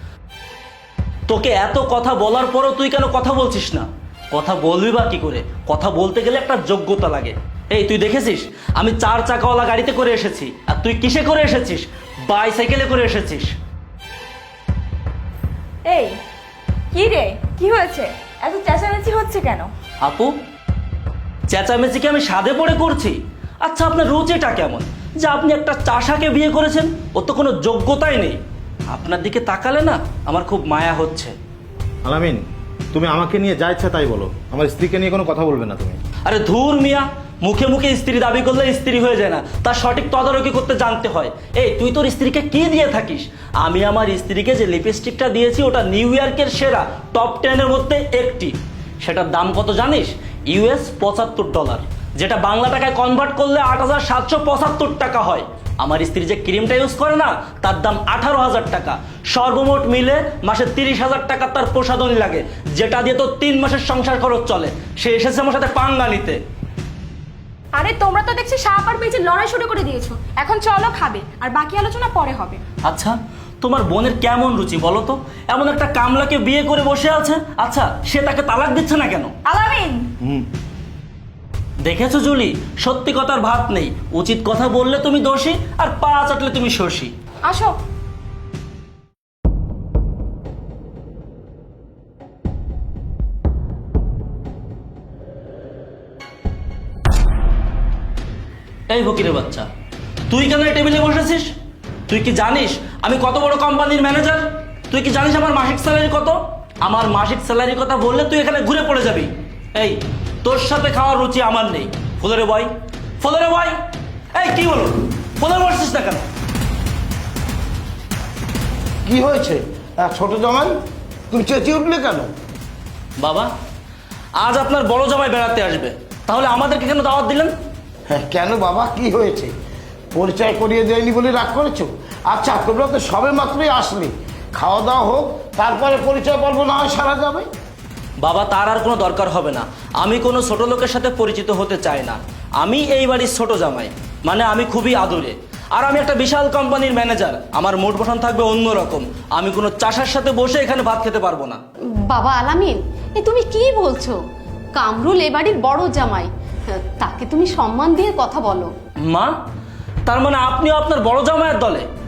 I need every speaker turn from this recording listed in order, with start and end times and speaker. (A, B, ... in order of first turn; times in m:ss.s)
0:01.3-0:13.5 A
0:15.8-0:16.2 B
0:16.9-0:19.7 B
0:20.0-0:20.3 A
0:21.5-0:31.3 A
0:32.0-0:36.0 C
0:36.2-1:06.4 A
1:07.7-1:12.6 B
1:12.8-1:19.3 A
1:19.4-1:20.1 B
1:20.2-1:20.5 C
1:21.8-1:27.1 A
1:27.4-1:27.7 B
1:38.9-1:39.7 A
1:40.3-1:41.5 A
1:42.1-1:53.8 A
1:54.3-1:56.2 A
1:59.0-2:00.7 D
2:01.3-2:02.3 D
2:03.2-2:03.5 A
2:04.4-2:07.5 A
2:08.1-2:09.5 D
2:10.1-2:17.4 D
2:18.2-2:31.6 A
2:32.1-2:34.2 E
2:34.7-2:38.7 E
2:39.1-2:39.3 A
2:40.0-2:41.8 A